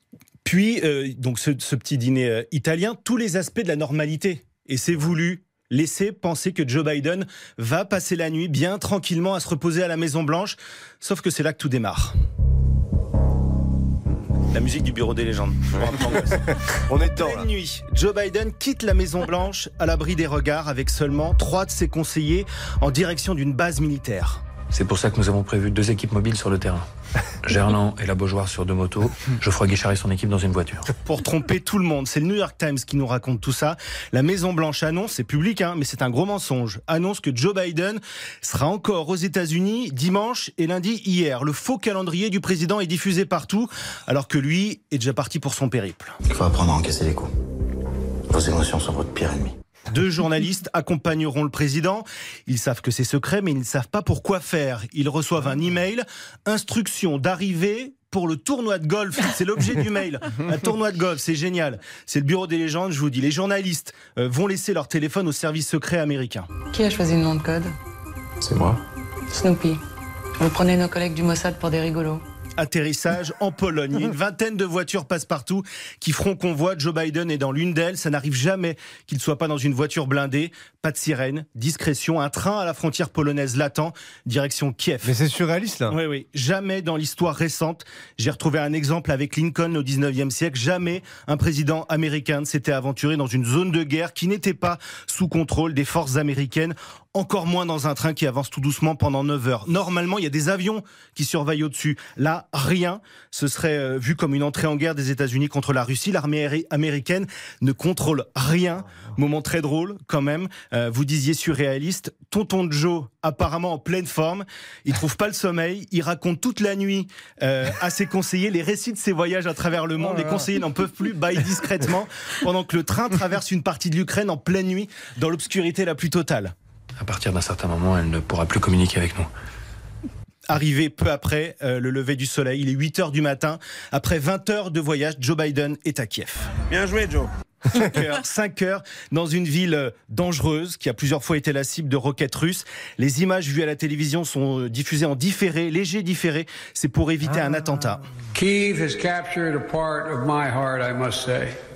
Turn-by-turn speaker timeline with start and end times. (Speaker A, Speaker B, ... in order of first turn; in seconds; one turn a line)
Speaker A: 0.4-12.1
Speaker A: 14.5-16.5
Speaker B: 16.3-17.5
Speaker A: 17.1-24.4
Speaker C: 24.7-26.8
Speaker C: 27.4-30.9
Speaker A: 31.0-46.1
Speaker D: 46.3-47.3
Speaker D: 48.3-49.5
Speaker A: 49.9-66.5
Speaker E: 66.7-67.7
Speaker E: 69.3-69.8
Speaker E: 70.4-72.2
Speaker A: 72.6-85.1
Speaker B: 85.0-86.0
Speaker A: 85.9-126.5
Speaker C: 127.0-129.3
Speaker A: 130.5-136.4
Speaker D: 136.7-137.2
Speaker A: 137.7-148.0
Speaker F: 148.3-151.6